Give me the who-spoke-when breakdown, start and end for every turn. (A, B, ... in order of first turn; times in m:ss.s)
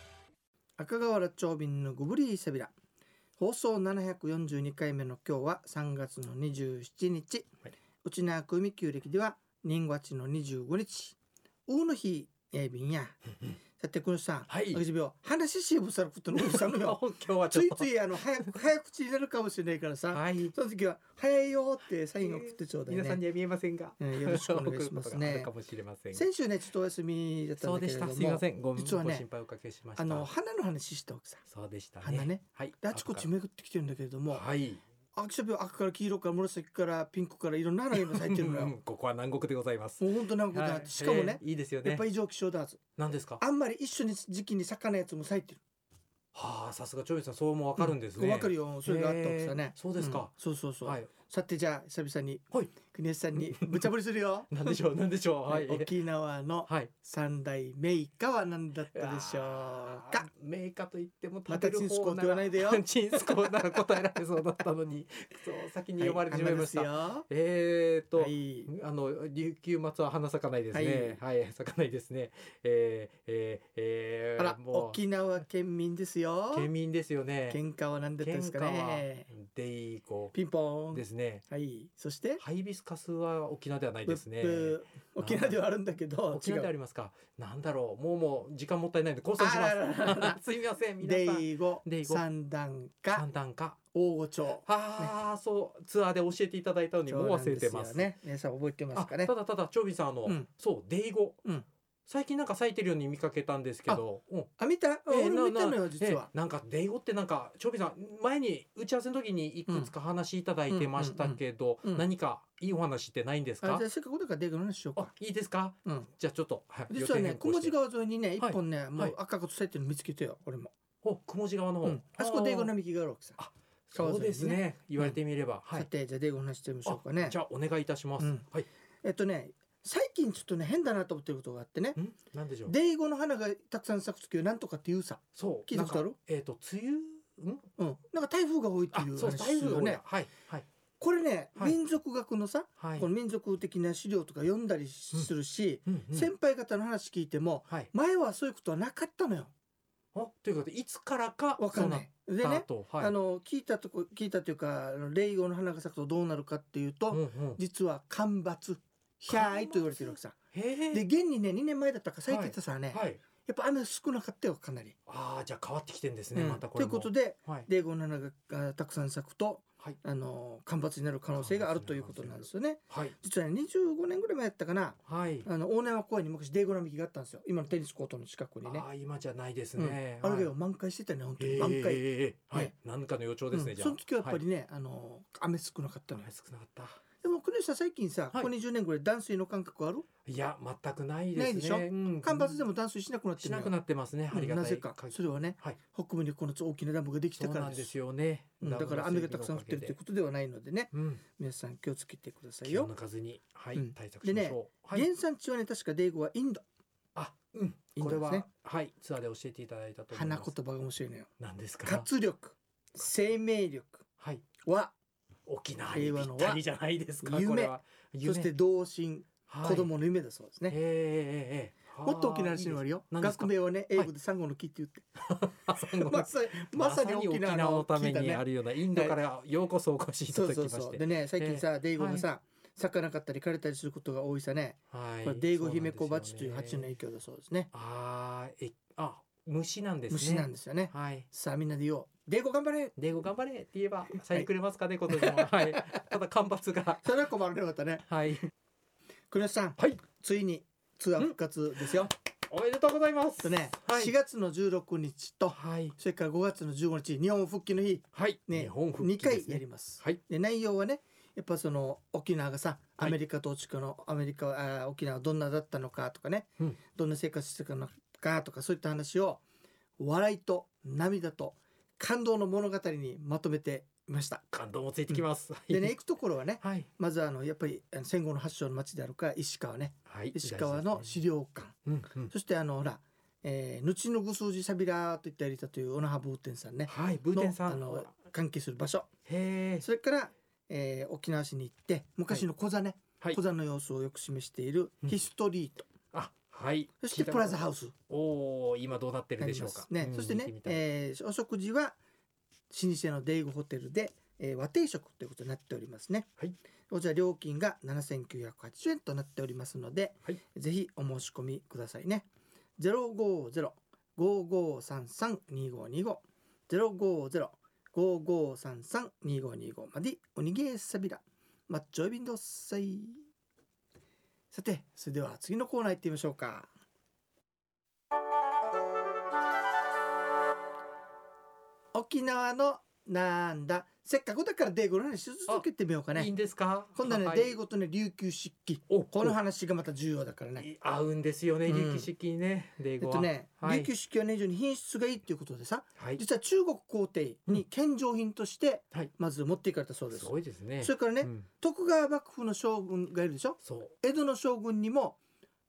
0:00.8-0:02.7 A
0:03.4-0:07.5 A
0:08.0-0:13.2 A
0:13.8-0:23.2 A
0:14.5-0:14.8 B
0:16.3-0:18.5 B
0:20.1-0:20.5 B
0:22.2-0:26.2 B
0:24.0-0:25.5 A
0:26.1-0:29.2 A
0:27.6-0:30.3 B
0:30.0-0:31.4 A
0:31.5-0:33.3 B
0:32.0-0:34.4 A
0:34.3-0:34.8 B
0:35.1-0:38.7 A
0:37.9-0:42.0 B
0:40.0-0:42.8 A
0:43.0-0:43.4 B
0:43.4-0:45.6 A
0:46.3-0:50.3 B
0:47.8-0:54.8 A
0:50.8-0:51.1 B
0:53.4-0:53.9 B
0:54.5-0:55.9 B
0:55.5-1:00.2 A
0:56.6-0:56.9 B
0:58.9-1:15.0 B
1:01.5-1:03.9 A
1:06.0-1:07.2 A
1:08.2-1:08.7 A
1:10.7-1:11.2 A
1:14.4-1:16.7 A
1:16.5-1:17.6 B
1:17.5-1:19.3 A
1:18.2-1:20.3 B
1:20.3-1:22.4 A
1:20.9-1:21.4 B
1:22.4-1:25.6 B
1:24.0-1:26.7 A
1:26.3-1:32.2 B
1:29.4-1:30.4 A
1:31.0-1:33.2 A
1:33.1-1:33.8 B
1:33.9-1:35.1 A
1:34.6-1:38.1 B
1:37.1-1:39.3 A
1:38.9-1:41.4 B
1:42.1-1:44.5 B
1:44.6-1:46.3 A
1:45.1-1:53.8 B
1:50.7-1:52.0 A
1:53.6-1:55.1 A
1:55.0-1:57.7 B
1:56.9-2:00.7 A
1:58.4-1:59.1 B
2:01.0-2:02.7 B
2:01.8-2:03.4 A
2:03.4-2:05.9 B
2:03.9-2:05.2 A
2:05.7-2:07.4 A
2:06.8-2:08.7 B
2:08.2-2:08.5 A
2:09.0-2:12.0 A
2:12.0-2:12.7 B
2:12.6-2:16.2 A
2:15.3-2:17.7 B
2:17.8-2:20.0 A
2:18.9-2:20.6 B
2:21.0-2:29.5 A
2:22.8-2:23.1 B
2:25.9-2:26.3 B
2:30.1-2:33.1 B
2:31.6-2:40.4 A
2:37.1-2:37.6 B
2:39.3-2:41.0 B
2:40.9-2:45.0 A
2:42.3-2:43.2 B
2:45.1-2:47.7 B
2:46.3-2:58.8 A
2:51.3-2:53.1 B
2:55.0-2:55.5 B
2:58.6-3:00.5 B
2:59.8-3:02.7 A
3:01.4-3:04.4 B
3:03.5-3:06.3 A
3:06.1-3:07.0 B
3:07.2-3:10.0 A
3:10.2-3:12.6 B
3:11.3-3:13.7 A
3:13.4-3:15.8 B
3:14.3-3:17.9 A
3:17.4-3:20.0 B
3:18.6-3:22.9 A
3:20.9-3:21.2 B
3:22.6-3:25.1 B
3:23.7-3:26.6 A
3:27.1-3:30.5 B
3:28.0-3:28.5 A
3:30.1-3:31.3 A
3:31.4-3:32.1 B
3:31.8-3:34.0 A
3:34.2-3:34.4 B
3:34.6-3:34.9 A
3:35.4-3:38.5 B
3:35.9-3:36.6 A
3:37.2-3:40.8 A
3:39.5-3:39.9 B
3:40.7-3:44.1 B
3:42.0-3:45.1 A
3:45.2-3:52.2 B
3:45.7-3:49.2 A
3:50.3-3:57.7 A
3:54.9-3:56.9 B
3:57.7-4:01.3 B
4:00.1-4:02.9 A
4:03.0-4:07.1 B
4:04.2-4:04.5 A
4:05.1-4:06.0 A
4:07.0-4:08.3 A
4:08.0-4:08.5 B
4:09.3-4:12.1 A
4:09.8-4:10.0 B
4:11.9-4:14.1 B
4:13.4-4:29.4 A
4:15.5-4:16.0 B
4:18.1-4:20.2 B
4:30.0-4:34.4 A
4:34.5-4:35.9 B
4:35.1-4:49.1 A
4:36.6-4:36.9 B
4:40.1-4:41.1 B
4:41.8-4:42.3 B
4:46.8-4:48.1 B
4:49.2-4:49.9 B
4:49.8-4:55.9 A
4:56.1-5:00.8 B
4:57.0-4:57.9 A
4:59.4-5:02.0 A
5:02.7-5:06.3 A
5:06.9-5:23.2 A
5:24.5-5:26.7 A
5:31.9-5:36.3 A
5:35.5-5:37.5 B
5:36.9-5:40.7 A
5:38.9-5:39.4 B
5:40.6-5:43.9 B
5:41.6-5:42.1 A
5:43.0-5:55.2 A
5:46.0-5:46.2 B
5:50.1-5:51.5 B
5:53.6-5:53.9 B